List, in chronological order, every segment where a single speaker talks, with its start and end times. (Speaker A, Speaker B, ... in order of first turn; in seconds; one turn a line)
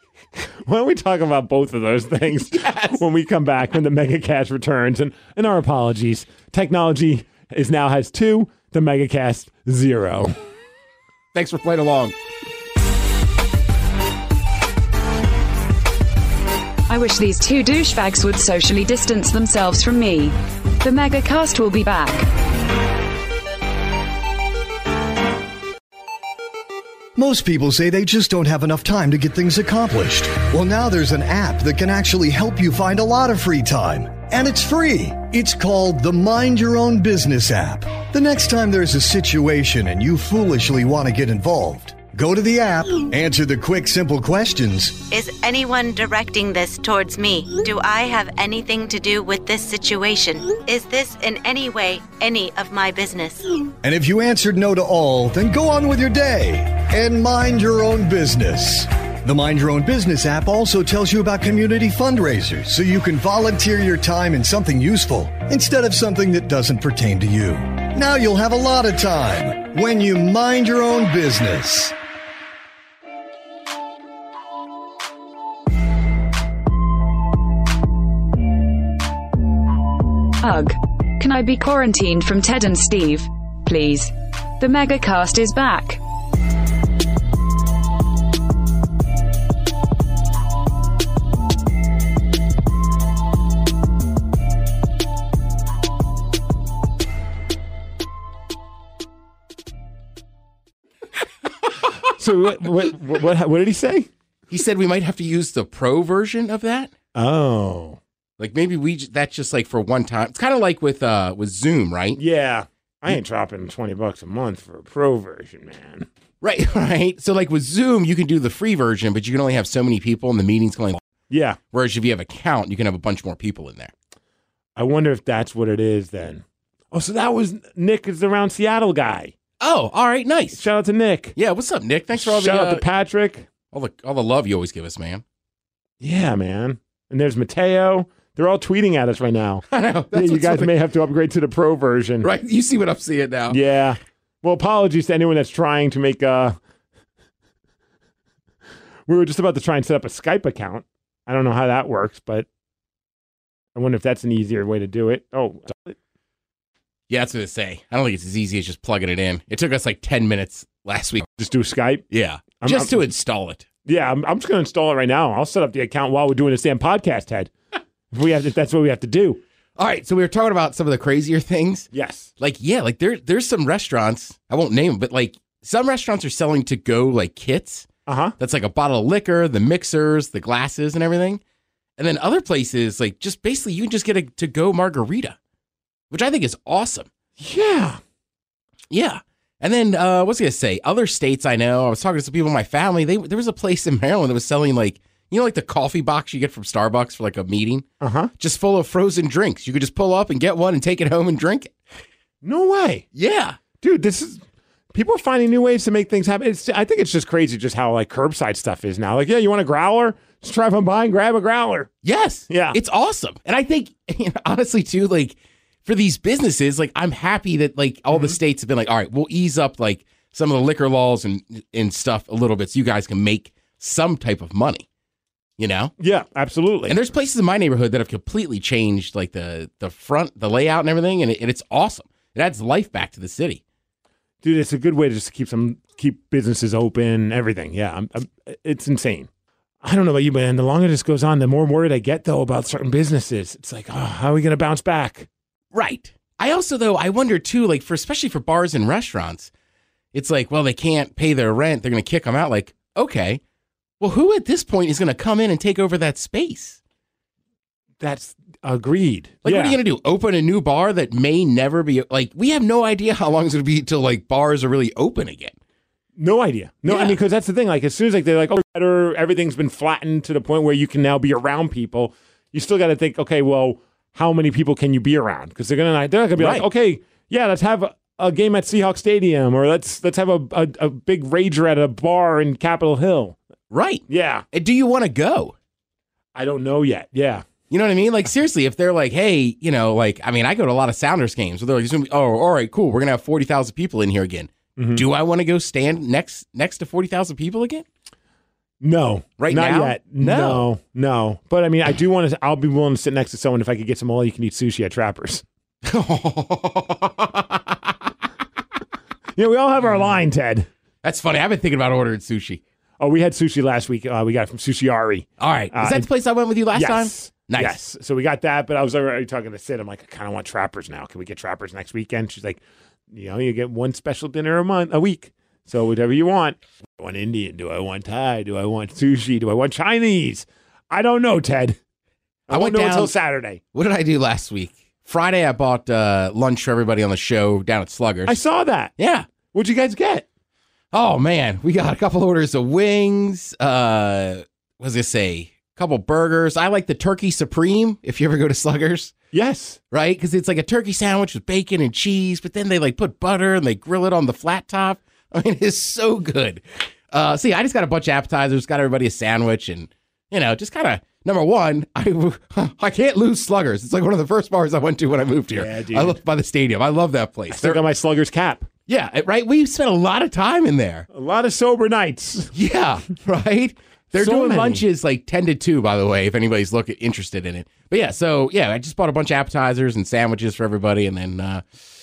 Speaker A: 0.7-10.3
Speaker B: 2.5-3.0
Speaker B: 11.3-12.1
Speaker C: 16.9-22.3
Speaker D: 27.1-45.0
Speaker E: 45.0-53.5
Speaker D: 53.8-71.9
Speaker C: 80.4-86.0
Speaker A: 102.2-104.1
Speaker B: 104.5-106.9
Speaker A: 107.1-108.0
Speaker B: 108.4-112.2
Speaker A: 112.2-116.1
Speaker B: 116.4-121.0
Speaker A: 121.3-121.6
Speaker B: 121.7-123.9
Speaker A: 124.8-129.3
Speaker B: 129.6-130.6
Speaker A: 130.6-131.3
Speaker B: 131.3-132.8
Speaker A: 132.1-133.5
Speaker B: 133.7-135.2
Speaker A: 136.0-142.3
Speaker B: 139.7-140.7
Speaker B: 142.2-143.6
Speaker A: 143.5-146.6
Speaker A: 149.1-152.5
Speaker A: 153.7-155.9
Speaker B: 157.1-161.3
Speaker A: 161.4-162.0
Speaker B: 162.1-163.7
Speaker A: 162.6-163.0
Speaker A: 163.8-167.5
Speaker A: 168.1-169.4
Speaker B: 169.8-171.9
Speaker A: 171.9-172.3
Speaker B: 172.4-177.9
Speaker A: 178.1-178.3
Speaker B: 178.4-181.4
Speaker B: 182.0-185.3
Speaker B: 186.1-187.1
Speaker A: 187.4-188.0
Speaker B: 188.9-197.9
Speaker A: 198.0-198.3
Speaker B: 198.4-201.7
Speaker A: 202.4-203.0
Speaker B: 203.1-203.6
Speaker A: 203.8-204.4
Speaker A: 204.9-211.9
Speaker B: 212.0-224.8
Speaker A: 212.5-212.8
Speaker B: 225.6-225.9
Speaker A: 226.0-227.0
Speaker B: 226.9-233.6
Speaker A: 234.4-239.3
Speaker A: 239.8-245.3
Speaker B: 245.7-249.5
Speaker B: 250.1-253.4
Speaker B: 254.0-256.8
Speaker A: 258.0-259.8
Speaker B: 259.4-265.6
Speaker A: 266.2-283.4
Speaker B: 266.9-267.2
Speaker B: 276.4-276.6
Speaker B: 283.7-285.5
Speaker A: 284.1-284.4
Speaker A: 286.4-287.5
Speaker B: 287.7-297.8
Speaker A: 294.8-295.0
Speaker A: 298.8-305.4
Speaker B: 299.4-300.7
Speaker B: 305.8-307.9
Speaker A: 309.4-310.7
Speaker B: 311.0-312.6
Speaker A: 313.0-316.1
Speaker B: 315.4-317.8
Speaker A: 316.7-331.8
Speaker A: 332.5-333.6
Speaker B: 332.5-333.1
Speaker B: 333.7-338.4
Speaker A: 338.2-338.9
Speaker B: 339.0-339.3
Speaker A: 339.5-340.2
Speaker B: 340.9-349.1
Speaker A: 349.3-349.8
Speaker B: 349.9-367.8
Speaker A: 365.5-366.2
Speaker A: 367.5-368.7
Speaker B: 368.9-371.1
Speaker A: 371.1-372.5
Speaker B: 372.5-381.6
Speaker A: 374.1-374.8